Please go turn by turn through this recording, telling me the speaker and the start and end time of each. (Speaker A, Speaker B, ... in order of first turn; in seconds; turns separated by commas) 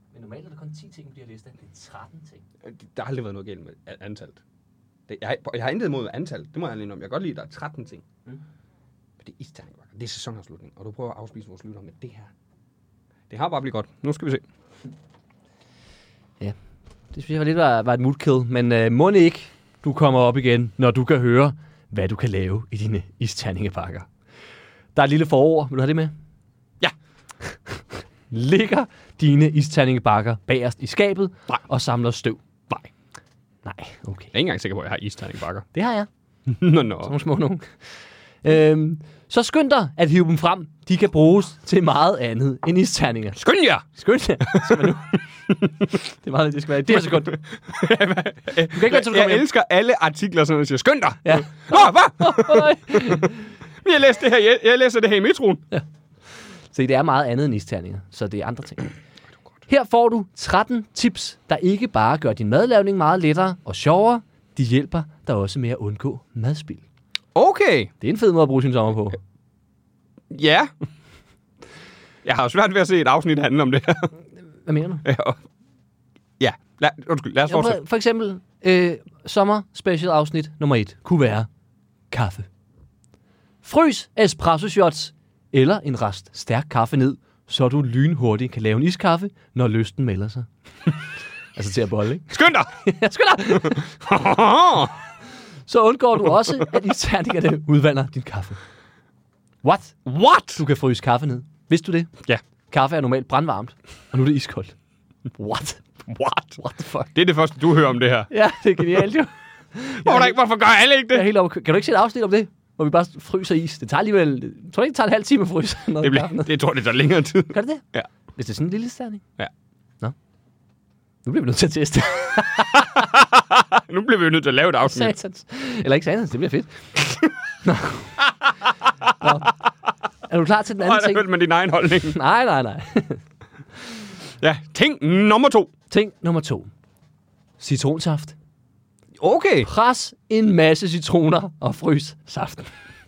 Speaker A: 0.1-2.4, Speaker B: 2.6-4.4, Speaker B: 5.1-8.0, Speaker B: 9.2-12.3, Speaker B: 13.3-14.4, Speaker A: 17.1-24.1, Speaker A: 24.9-26.1, Speaker A: 27.4-32.4, Speaker A: 33.6-34.3, Speaker B: 34.3-35.7, Speaker A: 35.7-36.1, Speaker B: 36.5-37.1, Speaker A: 37.0-43.4, Speaker B: 43.4-43.8, Speaker A: 43.9-45.2, Speaker B: 44.4-44.8, Speaker B: 45.5-45.9, Speaker A: 46.2-47.4, Speaker B: 46.9-53.2, Speaker A: 48.7-49.5, Speaker A: 51.2-53.5, Speaker B: 53.8-55.6, Speaker A: 55.7-58.9, Speaker A: 59.7-66.8, Speaker B: 67.3-67.9, Speaker A: 68.0-69.2, Speaker B: 70.3-70.7, Speaker B: 72.2-74.1, Speaker A: 74.7-75.0, Speaker B: 75.0-75.4, Speaker B: 76.4-77.8, Speaker A: 77.5-81.5, Speaker A: 82.1-82.5, Speaker A: 83.6-90.5, Speaker A: 91.5-93.9, Speaker B: 92.3-92.7, Speaker B: 93.6-94.9, Speaker A: 95.7-98.6, Speaker A: 99.6-100.0, Speaker B: 100.0-100.6, Speaker A: 100.5-102.1, Speaker A: 102.7-104.7, Speaker A: 105.4-105.8, Speaker B: 106.0-106.5, Speaker A: 106.5-107.1, Speaker B: 107.1-108.3, Speaker A: 108.3-110.4, Speaker B: 110.0-111.3, Speaker A: 111.1-116.5, Speaker B: 116.0-118.1, Speaker A: 117.5-117.8, Speaker A: 118.3-119.2, Speaker A: 121.2-123.0, Speaker B: 123.2-125.1, Speaker A: 124.8-126.9, Speaker A: 127.6-128.2, Speaker B: 128.7-129.3, Speaker A: 129.2-129.5, Speaker A: 130.3-131.3, Speaker B: 130.8-132.1, Speaker A: 132.1-133.2, Speaker B: 134.4-135.7, Speaker A: 135.9-136.7, Speaker A: 137.6-138.3, Speaker B: 139.2-139.7, Speaker A: 139.6-142.7